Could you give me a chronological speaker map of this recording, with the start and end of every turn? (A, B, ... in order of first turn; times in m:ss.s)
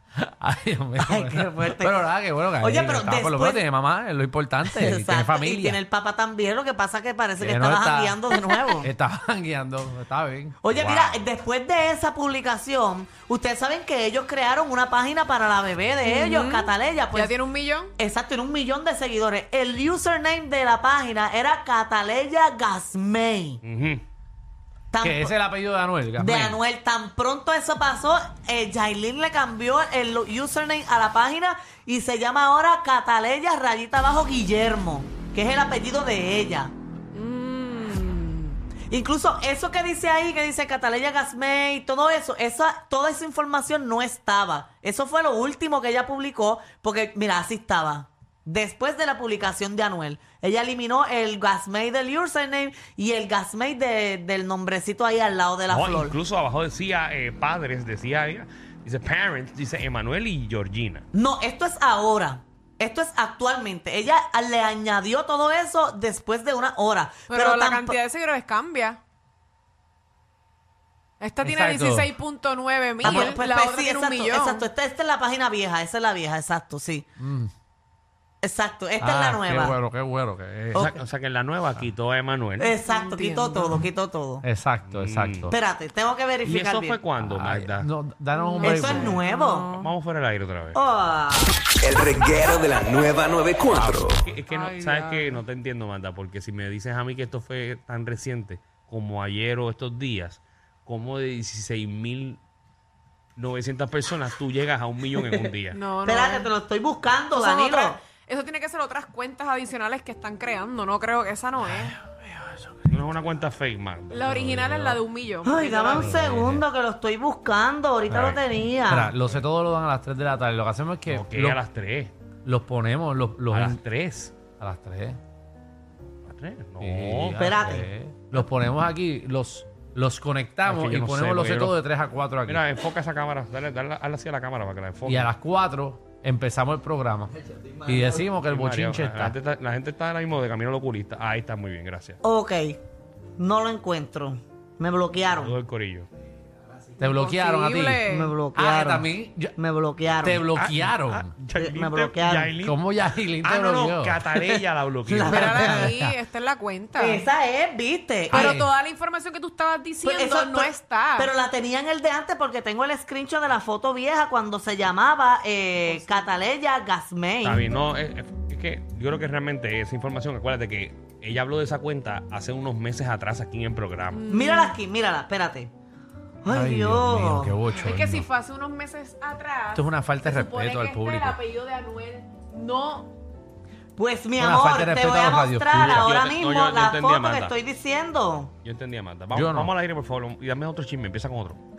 0:00.2-0:05.8 A
0:01.0-0:02.1 B
0:02.6-0:03.6 B
0:04.6-0:08.9 B
0:07.4-0:11.1 A
0:10.6-0:17.3 B
0:16.0-0:17.9 C
0:18.0-0:23.6 B
0:23.6-0:24.0 D
0:24.9-0:25.3 B
0:25.0-0:26.6 A
0:26.2-0:36.7 B
0:37.1-0:38.6 C
0:38.9-0:56.2 B
0:55.7-1:01.0 D
1:01.1-1:08.0 B
1:07.3-1:09.0 C
1:11.2-1:14.7 C
1:11.4-1:12.1 A
1:13.0-1:17.0 B
1:17.2-1:17.5 A
1:18.4-1:19.8 B
1:19.0-1:20.9 A
1:20.7-1:22.8 D
1:22.6-1:24.4 B
1:22.8-1:23.8 C
1:24.4-1:25.5 A
1:24.8-1:25.6 D
1:25.5-1:27.0 B
1:26.4-1:27.9 D
1:27.2-1:29.2 A
1:28.4-1:29.9 C
1:28.6-1:29.7 B
1:29.7-1:30.8 D
1:30.7-1:31.6 B
1:31.8-1:34.2 E
1:33.7-1:34.4 A
1:34.2-1:42.4 D
1:34.5-1:35.4 C
1:43.4-1:45.8 D
1:45.7-1:46.5 C
1:46.0-1:48.0 B
1:47.3-1:52.0 C
1:51.6-1:52.8 A
1:52.9-1:55.0 D
1:54.1-1:56.2 C
1:55.4-1:59.1 B
1:55.9-1:56.6 A
1:58.1-1:58.4 D
1:58.9-2:01.6 A
2:01.1-2:02.1 D
2:02.4-2:03.8 A
2:03.5-2:04.4 D
2:04.6-2:05.2 A
2:06.2-2:07.4 D
2:06.8-2:12.6 A
2:07.4-2:07.9 B
2:10.6-2:11.7 D
2:12.5-2:15.3 D
2:15.0-2:17.3 A
2:17.8-2:19.3 A
2:18.5-2:22.2 D
2:22.2-2:22.8 B
2:23.4-2:25.5 B
2:25.4-2:26.1 D
2:27.0-2:29.5 A
2:27.1-2:28.4 C
2:28.0-2:30.4 B
2:30.2-2:31.3 A
2:30.5-2:32.8 D
2:31.5-2:32.5 B
2:32.6-2:34.2 A
2:33.4-2:35.8 D
2:35.1-2:35.9 B
2:35.3-2:36.2 A
2:35.4-2:37.2 C
2:37.0-2:38.6 B
2:38.3-2:41.3 C
2:38.3-2:38.7 A
2:40.0-2:47.6 B
2:45.8-2:46.3 C
2:47.4-2:54.2 D
2:54.1-2:54.8 C
2:54.3-2:55.7 B
2:56.4-2:57.5 B
2:56.5-2:58.2 A
2:57.8-3:03.1 C
2:59.7-3:01.4 A
3:04.0-3:08.5 B
3:04.4-3:06.1 A
3:05.8-3:07.5 D
3:08.6-3:11.6 D
3:09.3-3:09.7 A